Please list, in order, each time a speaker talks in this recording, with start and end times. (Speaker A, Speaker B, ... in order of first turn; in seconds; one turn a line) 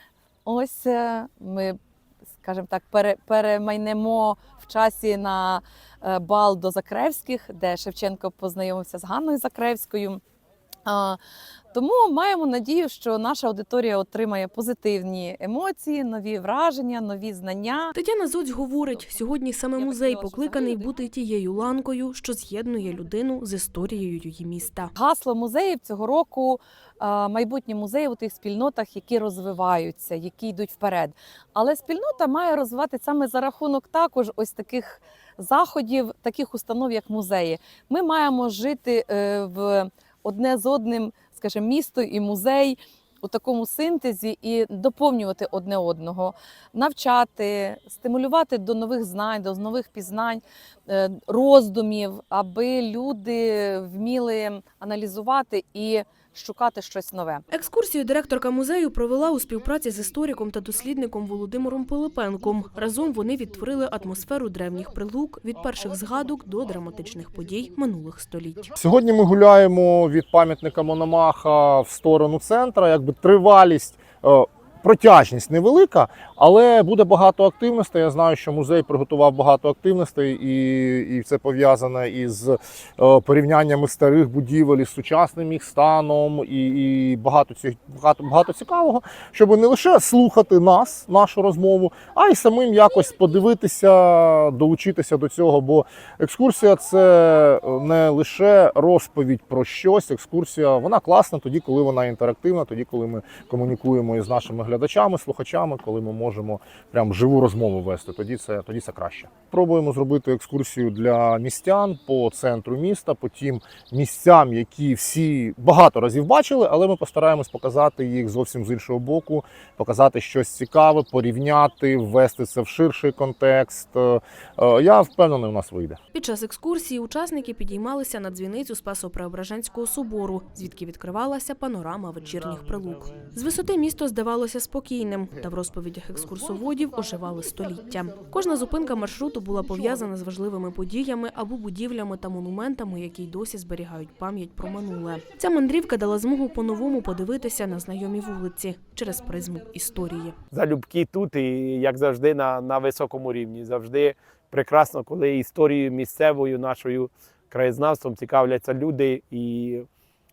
Speaker A: 0.5-1.8
Speaker A: 2.4-10.2
Speaker A: 10.8-11.2
Speaker A: 11.7-17.9
Speaker B: 17.9-24.9
Speaker A: 19.8-20.9
Speaker A: 24.9-57.4
Speaker B: 57.5-68.7
Speaker C: 68.8-126.0
Speaker B: 126.1-150.3
Speaker D: 150.5-159.9